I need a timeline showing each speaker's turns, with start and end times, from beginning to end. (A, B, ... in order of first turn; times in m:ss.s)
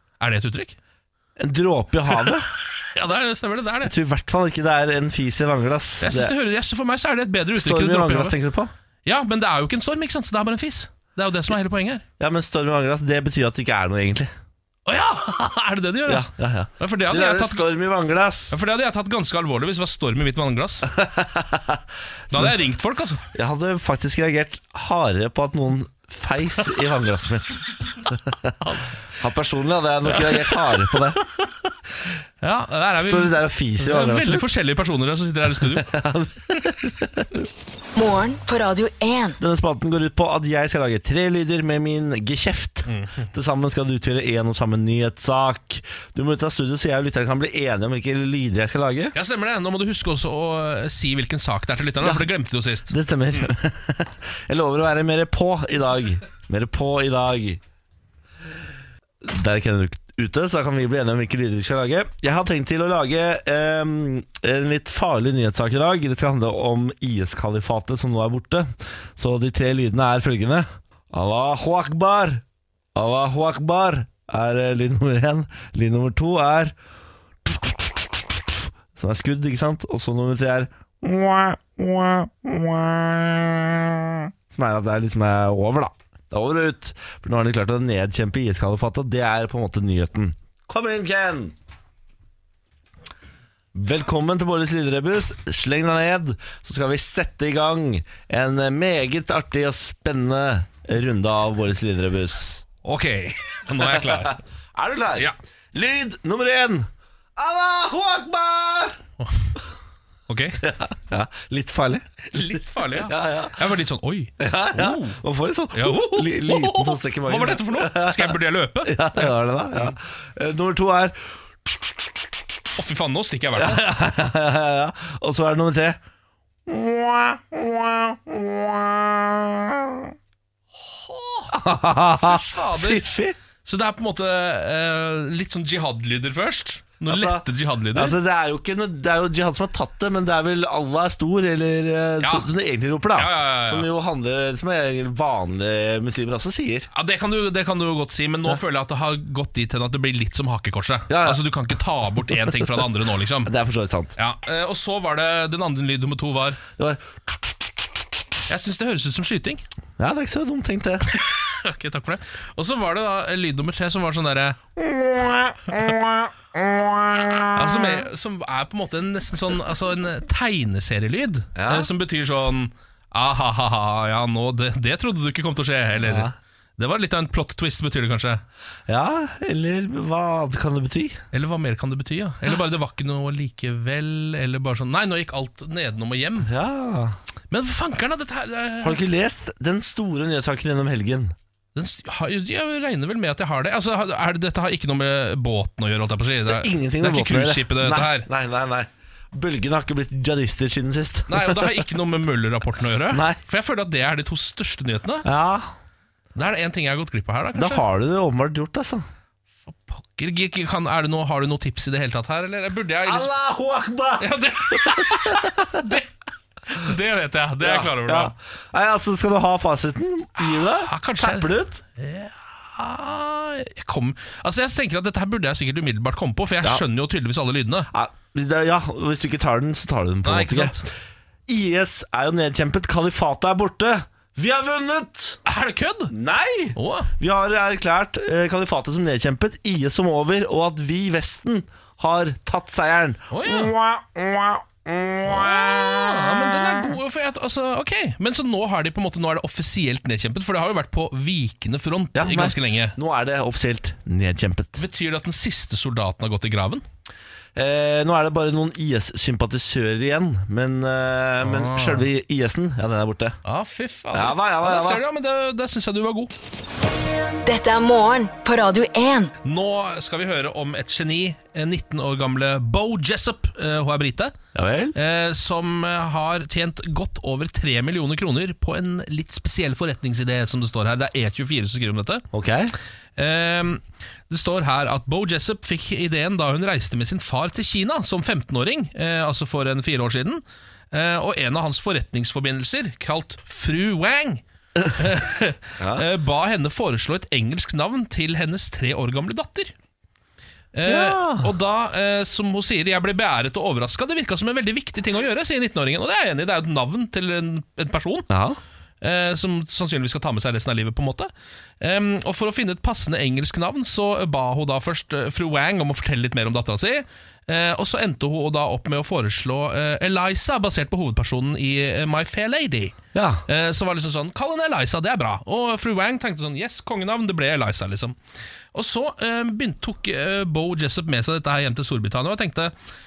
0:00.2-0:00.8 A
0:01.4-0:02.5 B
0:02.1-0:03.9 A
0:03.8-0:06.3 B
0:06.0-0:08.4 A
0:07.6-0:08.7 B
0:09.0-0:12.0 A
0:12.2-0:14.3 B
0:14.9-0:16.3 A
0:16.1-0:18.6 B
0:16.8-0:17.7 A
0:18.5-0:20.9 A
0:20.9-0:22.5 B
0:22.3-0:23.2 A
0:23.3-0:28.5 B
0:28.6-0:28.9 A
0:29.2-0:31.2 B
0:30.1-0:35.9 A
0:33.0-0:34.5 B
0:35.7-0:37.3 B
0:38.0-0:39.4 C
0:39.4-0:49.2 B
0:42.9-0:43.2 A
0:49.1-0:53.5 A
0:52.0-0:52.3 B
0:52.9-0:57.6 B
0:59.2-1:12.4 B
1:13.0-1:16.7 B
1:17.4-1:31.6 B
1:33.8-1:42.7 B
1:42.8-1:44.4 A
1:43.8-1:49.0 B
1:49.2-1:49.5 A
1:50.3-1:50.6 A
1:50.6-1:52.1 B
1:52.3-1:55.2 A
1:52.9-1:53.6 B
1:54.4-2:02.3 B
1:55.7-1:59.3 A
2:02.8-2:03.9 A
2:03.6-2:06.0 B
2:06.7-2:10.1 B
2:10.8-2:13.1 A
2:11.5-2:13.4 B
2:13.6-2:18.2 A
2:17.1-2:26.9 B
2:22.2-2:22.5 A
2:23.1-2:23.9 A
2:26.9-2:33.5 A
2:31.1-2:31.4 B
2:33.5-2:34.1 B
2:34.2-2:36.6 A
2:36.8-2:37.8 B
2:38.5-2:39.6 A
2:40.0-2:41.1 B
2:41.1-2:44.6 A
2:44.8-2:48.0 B
2:47.6-2:58.4 A
2:51.6-2:51.9 B
2:56.0-2:56.4 B
2:58.9-3:01.2 B
3:01.3-3:06.5 A
3:06.4-3:07.2 B
3:07.5-3:09.0 A
3:08.8-3:11.3 B
3:11.8-3:18.3 A
3:16.5-3:21.9 B
3:21.3-3:25.3 A
3:23.1-3:23.4 B
3:25.2-3:25.7 B
3:26.4-3:27.8 A
3:27.6-3:29.1 B
3:29.9-3:33.3 A
3:33.0-3:35.8 B
3:34.2-3:36.1 A
3:36.7-3:38.3 A
3:37.6-3:41.8 B
3:40.4-3:47.9 A
3:47.9-3:50.9 B
3:50.2-3:50.9 A
3:51.5-3:55.4 B
3:55.5-3:56.1 A
3:56.1-4:06.9 B
3:56.8-3:57.1 A
4:03.3-4:03.7 A
4:05.2-4:13.0 A
4:12.2-4:14.8 B
4:14.8-4:16.8 A
4:17.6-4:23.4 B
4:21.4-4:22.1 A
4:23.4-4:26.3 A
4:24.1-4:25.0 B
4:27.4-4:29.3 C
4:29.4-4:34.4 A
4:34.6-4:35.0 B
4:35.0-4:42.2 A
4:42.3-4:42.7 B
4:43.2-4:54.4 A
4:54.9-4:59.8 A
4:55.8-4:56.1 B
5:00.7-5:08.3 A
5:00.9-5:01.5 B
5:08.3-5:08.6 B
5:09.0-5:28.2 A
5:23.2-5:23.4 B
5:28.7-5:32.7 A